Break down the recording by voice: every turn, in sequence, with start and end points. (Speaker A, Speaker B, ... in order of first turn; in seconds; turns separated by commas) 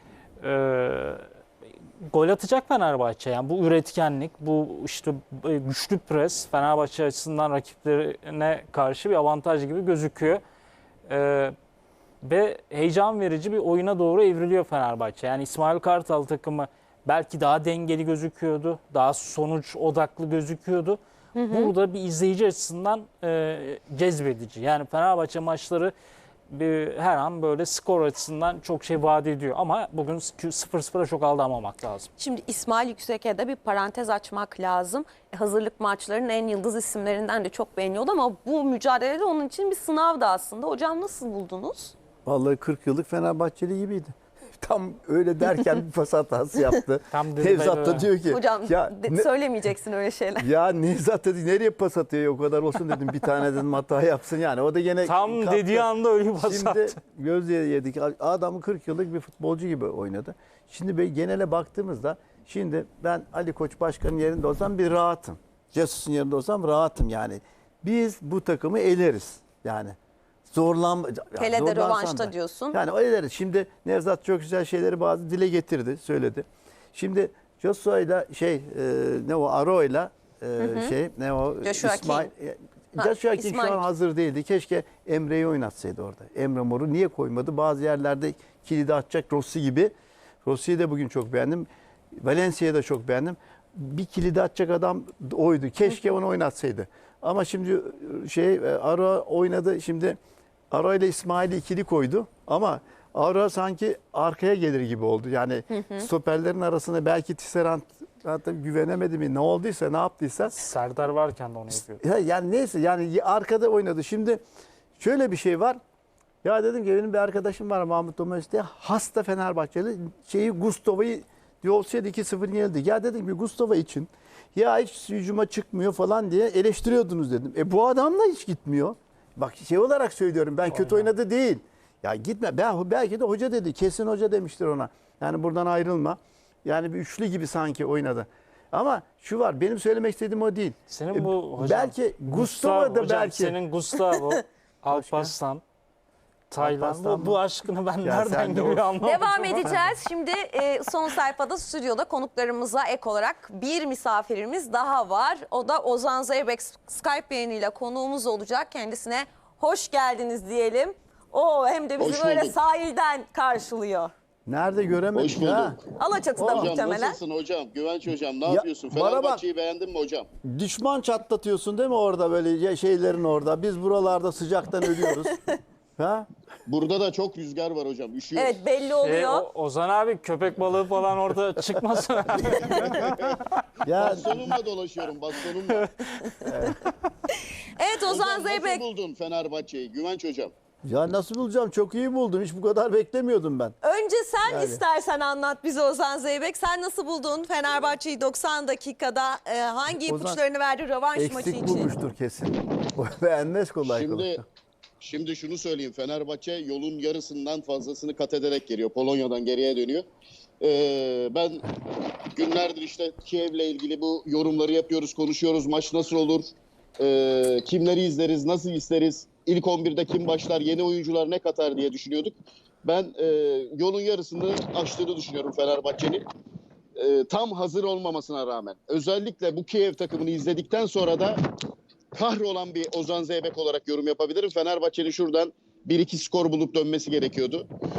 Speaker A: 0.4-1.2, Speaker A: 2.1-10.4, Speaker A: 11.1-11.6, Speaker A: 12.2-21.0, Speaker B: 21.4-21.7, Speaker A: 21.5-25.9, Speaker A: 26.5-32.1, Speaker B: 32.2-42.0, Speaker C: 42.2-49.3, Speaker A: 47.1-48.1, Speaker B: 48.3-50.5, Speaker C: 50.4-55.9, Speaker A: 55.0-57.0, Speaker C: 56.4-70.0, Speaker C: 70.5-89.9, Speaker B: 71.4-72.8, Speaker B: 80.6-80.9, Speaker B: 81.6-82.3, Speaker B: 83.0-83.8, Speaker C: 90.5-91.7, Speaker C: 92.2-100.2, Speaker C: 100.7-110.6, Speaker B: 105.7-106.1, Speaker A: 110.5-112.0, Speaker C: 112.0-114.4, Speaker C: 115.0-115.8, Speaker C: 116.4-143.6, Speaker A: 130.7-131.1, Speaker A: 140.9-145.6, Speaker C: 144.9-145.3, Speaker A: 146.5-149.7, Speaker C: 146.6-147.4, Speaker C: 148.0-148.9, Speaker B: 149.0-164.1, Speaker D: 162.0-162.6, Speaker C: 164.5-165.8, Speaker D: 165.2-165.8, Speaker B: 166.0-167.2, Speaker C: 166.4-166.8, Speaker D: 166.4-170.3, Speaker C: 168.5-169.4, Speaker C: 170.4-175.4, Speaker B: 175.0-175.5, Speaker C: 176.0-176.3, Speaker D: 176.7-178.6, Speaker B: 178.3-179.5, Speaker A: 179.0-183.2, Speaker B: 182.4-183.1, Speaker C: 182.9-183.3, Speaker C: 183.8-184.5, Speaker D: 184.0-185.9, Speaker A: 185.8-186.7, Speaker C: 186.4-186.8, Speaker B: 187.3-188.8, Speaker D: 188.1-190.5, Speaker C: 190.9-193.8, Speaker B: 193.8-201.9, Speaker C: 194.5-194.8, Speaker C: 200.1-200.4, Speaker C: 201.2-204.4, Speaker D: 203.8-204.4, Speaker D: 205.0-210.1, Speaker D: 210.6-216.5, Speaker D: 217.0-226.2, Speaker D: 227.0-231.4, Speaker D: 232.1-237.7